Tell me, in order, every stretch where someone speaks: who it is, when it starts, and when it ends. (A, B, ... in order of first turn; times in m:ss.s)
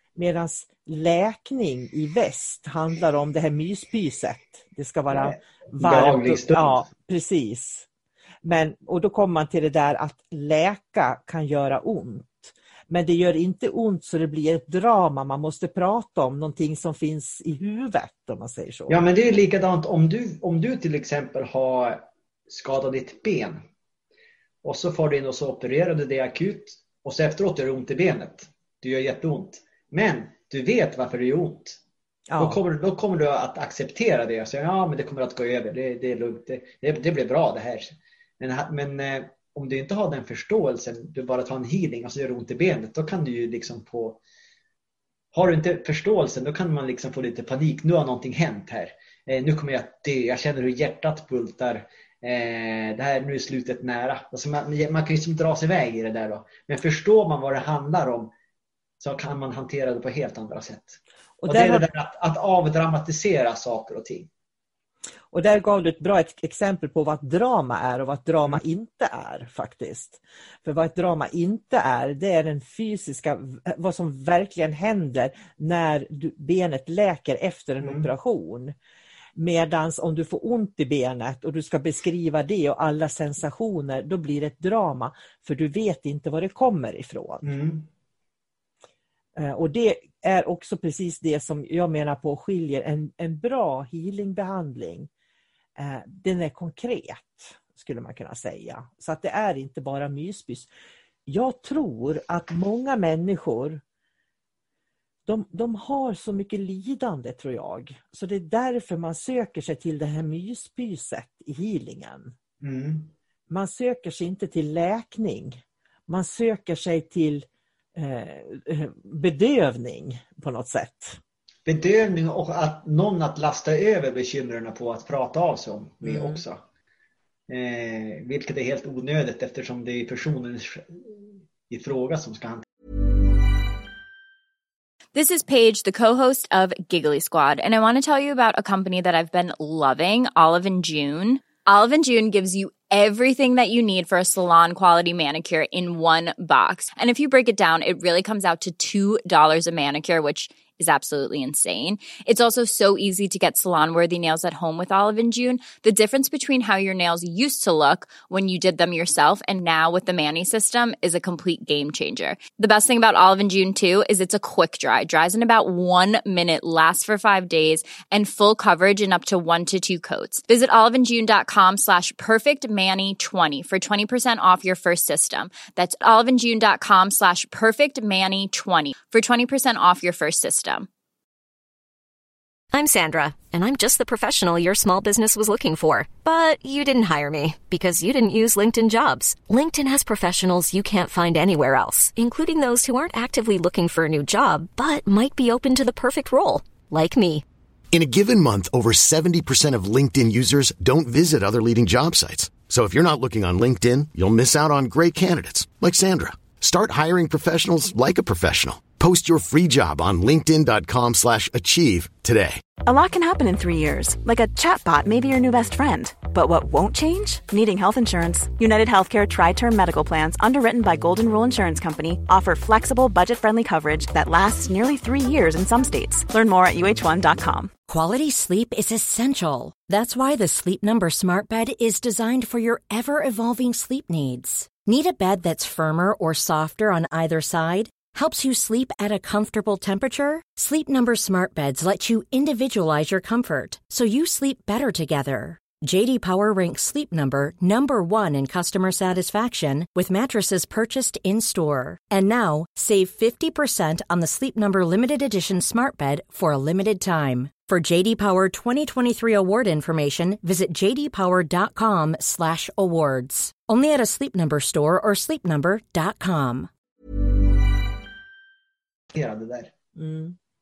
0:00.2-0:07.9 A
0:05.1-0:06.8 B
0:08.4-0:19.0 A
0:18.9-0:23.6 B
0:24.6-0:31.8 B
0:32.3-0:32.6 A
0:32.4-0:37.9 B
0:38.4-0:44.2 B
0:45.3-0:58.3 B
0:59.0-1:04.3 B
1:01.4-1:01.9 A
1:05.3-1:18.7 A
1:17.8-1:18.1 B
1:19.4-1:27.5 A
1:27.4-1:27.9 B
1:29.4-1:35.1 A
1:35.8-1:40.7 A
1:41.3-1:43.8 A
1:45.3-1:52.3 A
1:52.6-1:53.1 B
1:53.5-2:01.2 A
2:01.7-2:06.6 B
2:06.0-2:06.4 A
2:07.5-2:12.6 B
2:15.1-3:00.9 C
3:02.7-3:17.4 D
3:17.9-3:32.6 E
3:32.8-3:47.7 F
3:47.9-4:26.7 G
4:29.1-4:29.7 B
4:30.0-4:30.4 A